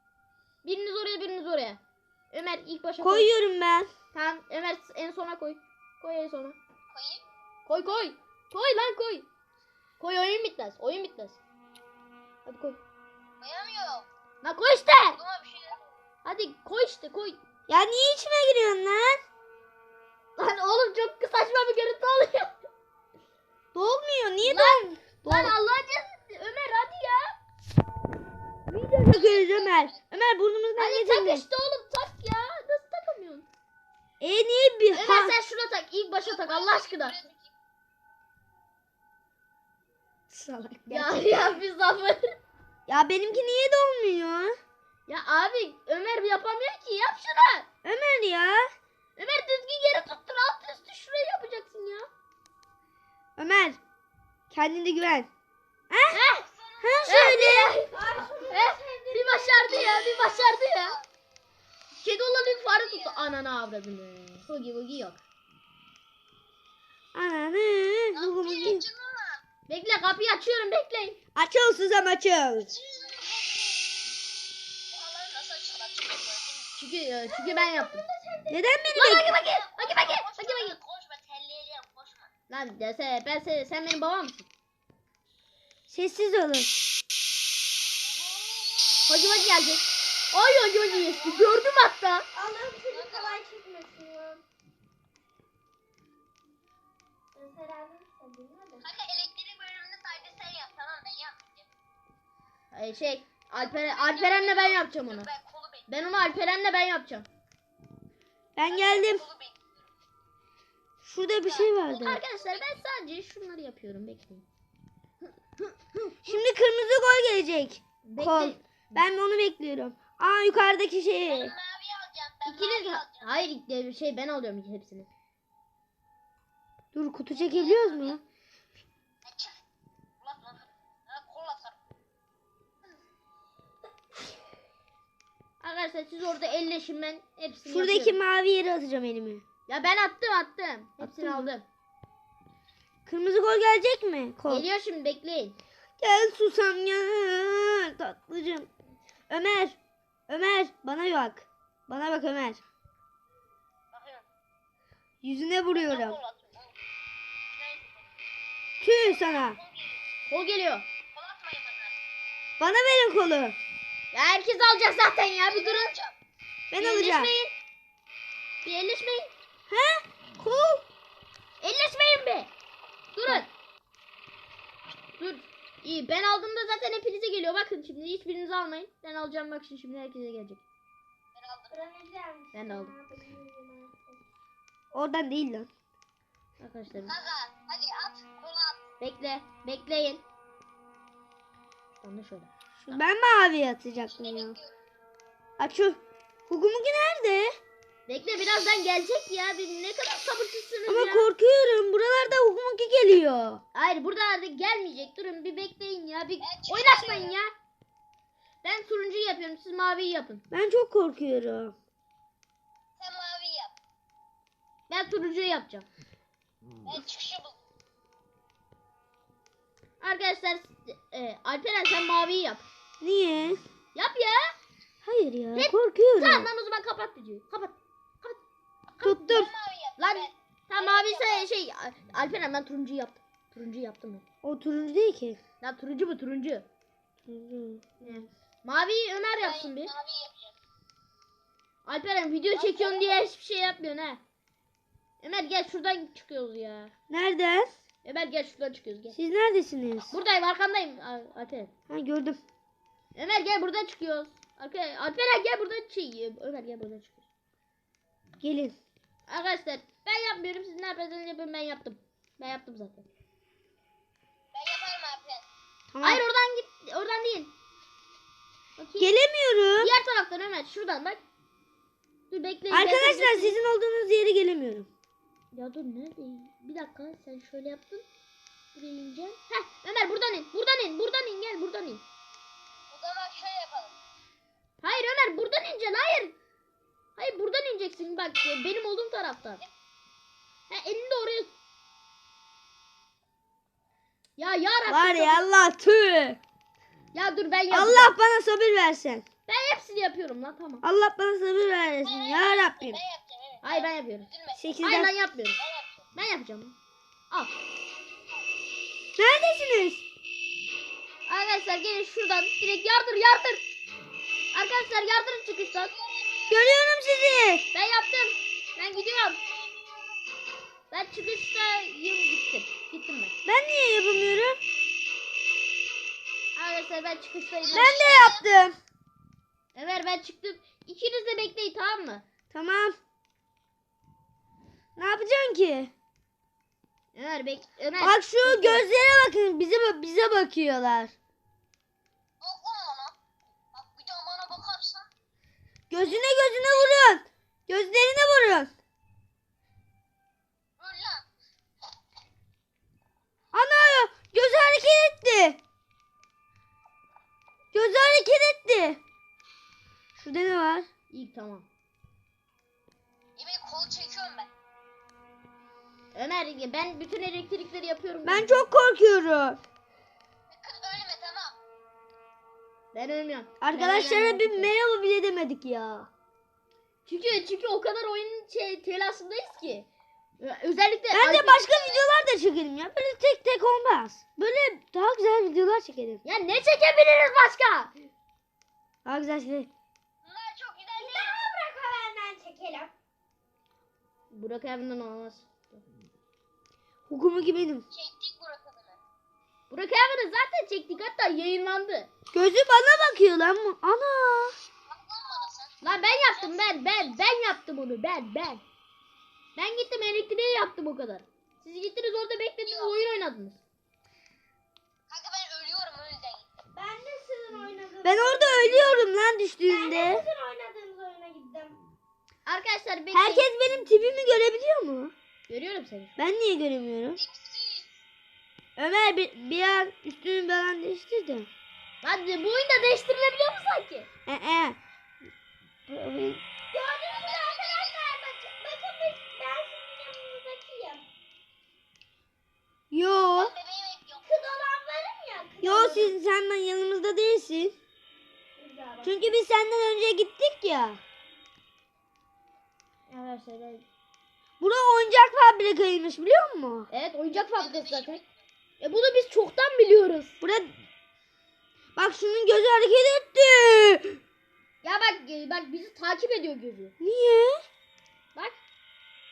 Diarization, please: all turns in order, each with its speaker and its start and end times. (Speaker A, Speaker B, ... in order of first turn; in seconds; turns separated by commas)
Speaker A: 0.6-3.3, Speaker B: 3.0-3.9, Speaker A: 4.1-6.6, Speaker C: 6.9-7.2, Speaker A: 7.7-9.2, Speaker A: 10.0-11.4, Speaker A: 12.4-12.8, Speaker C: 13.4-14.1, Speaker A: 14.4-15.2, Speaker C: 15.1-15.8, Speaker A: 16.2-17.4, Speaker B: 17.7-19.2, Speaker A: 20.4-22.5, Speaker B: 23.7-25.6, Speaker A: 24.4-27.4, Speaker B: 28.7-31.4, Speaker C: 29.1-29.9, Speaker A: 30.8-33.5, Speaker B: 34.2-35.3, Speaker A: 34.9-37.2, Speaker C: 36.2-37.5, Speaker B: 40.3-41.3, Speaker A: 40.9-42.3, Speaker B: 42.9-44.6, Speaker A: 45.1-47.7, Speaker B: 47.8-48.7, Speaker A: 49.1-52.1, Speaker B: 53.4-53.8, Speaker B: 54.5-55.3, Speaker B: 55.9-56.2, Speaker A: 56.1-56.5, Speaker C: 56.4-57.2, Speaker B: 56.8-57.8, Speaker A: 57.0-57.9, Speaker D: 57.9-60.0, Speaker A: 58.5-61.0, Speaker C: 60.4-60.8, Speaker A: 62.0-65.2, Speaker C: 62.6-63.2, Speaker B: 67.1-68.8, Speaker C: 68.1-69.4, Speaker A: 69.7-71.2, Speaker B: 71.3-72.7, Speaker C: 72.6-73.8, Speaker C: 74.9-76.7, Speaker A: 76.8-78.0, Speaker D: 77.3-78.6, Speaker B: 78.5-79.3, Speaker A: 78.9-80.8, Speaker C: 79.0-82.3, Speaker A: 82.5-84.5, Speaker B: 85.9-86.7, Speaker C: 88.1-89.0, Speaker A: 89.1-92.2, Speaker C: 90.9-91.4, Speaker D: 92.3-94.4, Speaker C: 92.9-93.4, Speaker D: 97.3-98.9, Speaker C: 98.8-101.7, Speaker A: 102.7-105.3, Speaker C: 103.6-105.9, Speaker A: 105.9-107.2, Speaker B: 108.5-109.2, Speaker C: 108.7-109.7, Speaker B: 111.0-112.2, Speaker C: 111.4-112.7, Speaker A: 111.9-114.5, Speaker A: 115.6-116.3, Speaker B: 116.2-121.5, Speaker A: 118.0-118.6, Speaker C: 121.2-123.3, Speaker A: 122.4-125.1, Speaker B: 126.9-128.2, Speaker C: 127.3-128.2, Speaker C: 129.2-129.6, Speaker C: 130.2-131.8, Speaker A: 135.6-138.2, Speaker B: 137.7-139.4, Speaker A: 139.7-141.7, Speaker B: 141.0-141.5, Speaker B: 143.1-144.7, Speaker A: 144.5-145.6, Speaker B: 146.0-148.7, Speaker B: 149.3-152.6, Speaker C: 153.9-154.2, Speaker B: 155.2-156.2, Speaker C: 155.7-156.7, Speaker C: 157.5-157.9, Speaker B: 158.8-159.6, Speaker C: 159.0-160.0, Speaker A: 160.2-160.8, Speaker C: 161.1-162.0, Speaker B: 162.6-163.6, Speaker A: 164.1-165.9, Speaker C: 165.5-166.2, Speaker B: 166.7-167.3, Speaker A: 166.8-167.5, Speaker A: 168.6-169.3, Speaker B: 169.7-170.8, Speaker A: 171.6-172.5, Speaker A: 173.1-173.5, Speaker A: 175.2-180.6, Speaker C: 181.3-181.8, Speaker D: 181.7-184.2, Speaker A: 182.5-182.9, Speaker B: 184.9-185.7, Speaker A: 186.6-187.1, Speaker C: 187.1-188.8, Speaker A: 189.0-190.2, Speaker A: 191.9-193.0, Speaker B: 192.8-194.6, Speaker C: 194.1-194.7, Speaker B: 195.6-197.6, Speaker A: 198.1-201.3, Speaker B: 200.9-203.6, Speaker A: 203.7-207.5, Speaker C: 206.4-207.3, Speaker A: 208.6-210.4, Speaker B: 210.5-211.7, Speaker C: 213.0-213.7, Speaker A: 214.9-215.8, Speaker C: 216.8-217.6, Speaker A: 220.0-222.6, Speaker B: 223.0-223.6, Speaker A: 223.9-224.5, Speaker B: 225.0-226.5, Speaker A: 225.5-228.4, Speaker A: 229.0-229.3, Speaker B: 229.0-229.5, Speaker C: 229.3-231.4, Speaker A: 230.0-234.2, Speaker B: 234.4-235.4, Speaker A: 235.6-236.7, Speaker B: 237.3-238.2, Speaker A: 238.0-239.9, Speaker C: 239.4-240.5, Speaker A: 241.8-244.2, Speaker C: 242.5-243.2, Speaker A: 245.2-246.9, Speaker B: 247.1-247.7, Speaker A: 248.0-249.2, Speaker B: 249.1-250.1, Speaker A: 250.1-251.7, Speaker B: 251.9-252.4, Speaker A: 253.1-257.2, Speaker B: 258.4-258.8, Speaker A: 259.3-263.1, Speaker C: 264.5-265.4, Speaker B: 265.9-266.2, Speaker A: 266.0-267.5, Speaker A: 268.8-269.1, Speaker B: 269.0-269.9, Speaker A: 269.8-271.2, Speaker A: 272.3-273.6, Speaker B: 272.7-274.9, Speaker A: 275.5-278.1, Speaker A: 278.7-282.0, Speaker C: 282.9-283.9, Speaker A: 284.8-286.3, Speaker A: 287.1-289.6, Speaker A: 290.7-291.5, Speaker A: 294.4-295.4, Speaker B: 294.9-296.4, Speaker A: 297.1-298.1, Speaker B: 297.7-299.2, Speaker A: 299.5-300.8, Speaker B: 300.8-303.0, Speaker C: 302.0-304.7, Speaker A: 303.6-304.3, Speaker B: 304.5-305.1, Speaker A: 304.8-305.6, Speaker C: 305.6-306.0, Speaker A: 306.1-306.7, Speaker B: 309.2-310.0, Speaker A: 311.2-313.6, Speaker A: 314.5-315.9, Speaker C: 315.7-316.7, Speaker B: 316.5-317.6, Speaker A: 317.7-319.4, Speaker A: 320.9-323.3, Speaker B: 323.4-324.6, Speaker A: 326.5-328.0, Speaker C: 327.6-328.4, Speaker B: 327.7-328.8, Speaker A: 329.7-332.2, Speaker B: 332.5-333.0, Speaker B: 335.0-335.9, Speaker A: 337.1-338.9, Speaker B: 338.0-341.1, Speaker C: 342.4-343.1, Speaker C: 343.7-345.1, Speaker B: 345.9-348.7, Speaker C: 350.8-351.2, Speaker B: 353.5-355.6, Speaker B: 357.7-359.0, Speaker B: 360.1-360.9, Speaker A: 361.1-361.7, Speaker C: 363.4-364.5, Speaker A: 366.1-368.6, Speaker B: 368.2-369.6, Speaker C: 370.5-371.5, Speaker A: 372.9-374.7, Speaker B: 373.6-376.1, Speaker A: 377.1-379.9, Speaker A: 380.4-381.7, Speaker B: 381.1-386.2, Speaker C: 381.7-382.0, Speaker A: 386.2-387.9, Speaker B: 389.0-389.7, Speaker C: 390.2-391.5, Speaker D: 391.0-392.9, Speaker A: 394.3-395.8, Speaker B: 397.1-397.8, Speaker C: 397.9-399.0, Speaker A: 399.7-402.1, Speaker B: 402.3-404.5, Speaker C: 404.9-405.8, Speaker A: 405.8-408.6, Speaker C: 406.3-407.2, Speaker A: 409.6-413.6, Speaker C: 412.6-412.9, Speaker C: 415.1-416.5, Speaker D: 416.7-419.1, Speaker B: 418.0-420.2, Speaker D: 419.7-421.8, Speaker A: 422.4-423.5, Speaker B: 423.1-425.1, Speaker A: 425.5-426.2, Speaker B: 426.2-427.2, Speaker C: 427.2-427.9, Speaker B: 428.8-431.5, Speaker A: 432.0-434.1, Speaker B: 434.3-434.8, Speaker B: 435.9-436.4, Speaker D: 436.7-441.0, Speaker C: 437.1-438.1, Speaker B: 442.9-443.5, Speaker C: 443.3-444.3, Speaker D: 444.2-446.1, Speaker B: 445.6-447.7, Speaker D: 448.6-449.1, Speaker B: 449.0-451.0, Speaker A: 453.1-453.8, Speaker B: 454.6-456.9, Speaker A: 456.9-458.2, Speaker C: 457.6-458.3, Speaker A: 458.8-460.3, Speaker B: 460.4-460.7, Speaker B: 461.9-464.2, Speaker A: 464.8-466.9, Speaker B: 467.0-467.6